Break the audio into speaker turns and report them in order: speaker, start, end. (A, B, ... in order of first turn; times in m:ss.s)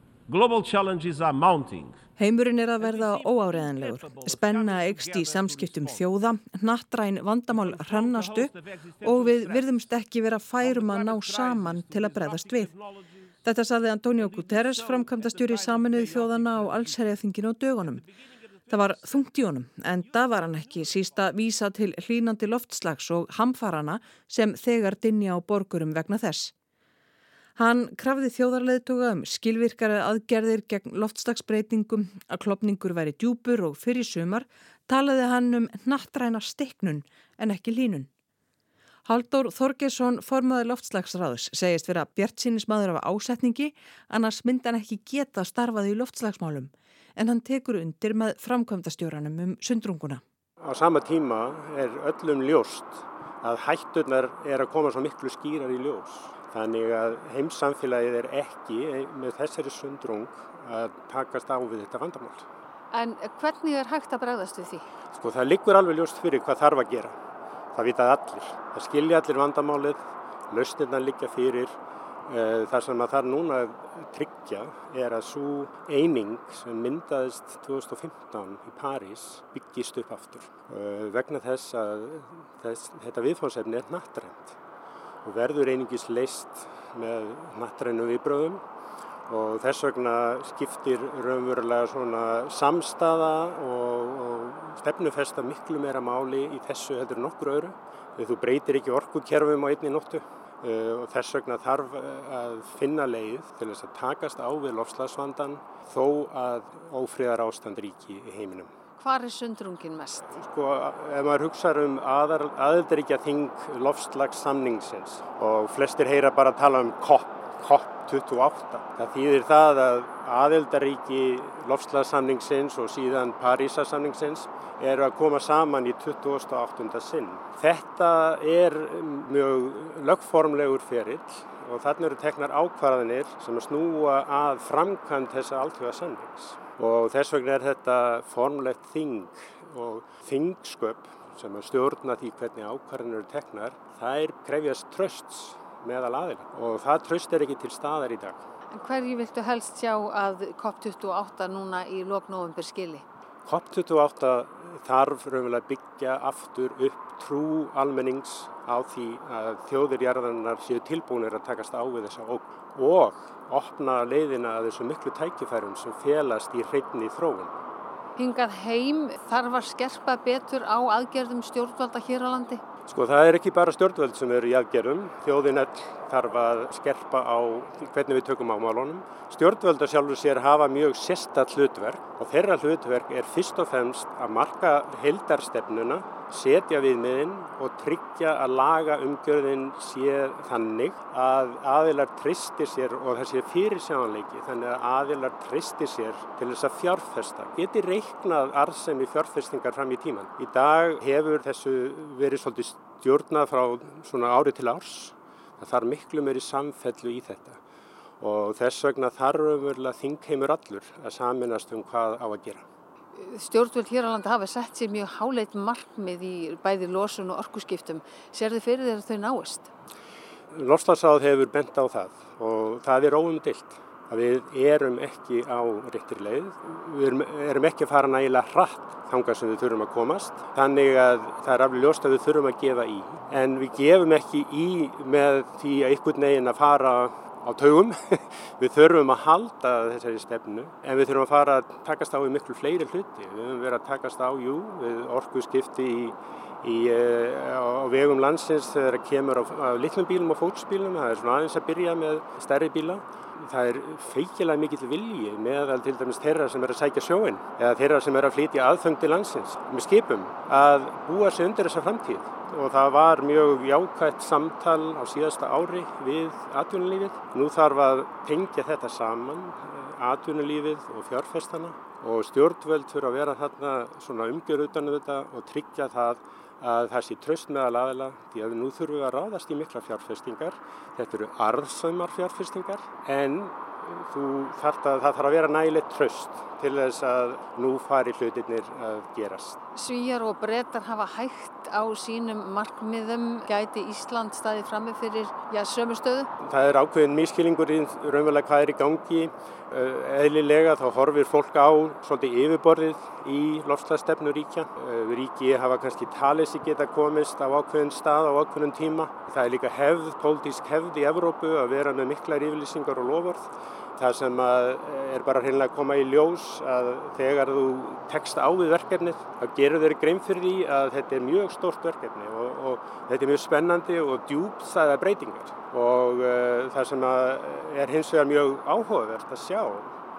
0:00.3-0:02.0 A
0:02.2-0:08.5 B
0:02.8-0:06.1 A
0:07.5-0:09.9 A
0:09.0-0:12.7 B
0:10.6-0:13.4 A
0:13.4-0:18.0 B
0:14.1-0:19.4 A
0:18.7-0:26.5 B
0:20.0-0:21.5 A
0:27.6-0:38.1 B
0:39.1-0:50.2 B
0:50.6-1:02.4 C
1:02.9-1:04.9 D
1:05.1-1:07.1 C
1:07.7-1:11.8 C
1:12.3-1:24.5 C
1:25.2-1:28.6 C
1:29.3-1:48.7 C
1:49.0-1:50.4 D
1:50.3-2:28.4 C
2:28.7-2:33.0 D
2:33.5-2:47.5 C
2:48.2-2:52.6 D
2:52.9-3:27.6 C
3:28.2-3:32.6 C
3:33.1-3:39.7 D
3:40.5-4:49.6 C
4:49.8-4:56.3 D
4:56.4-5:29.9 C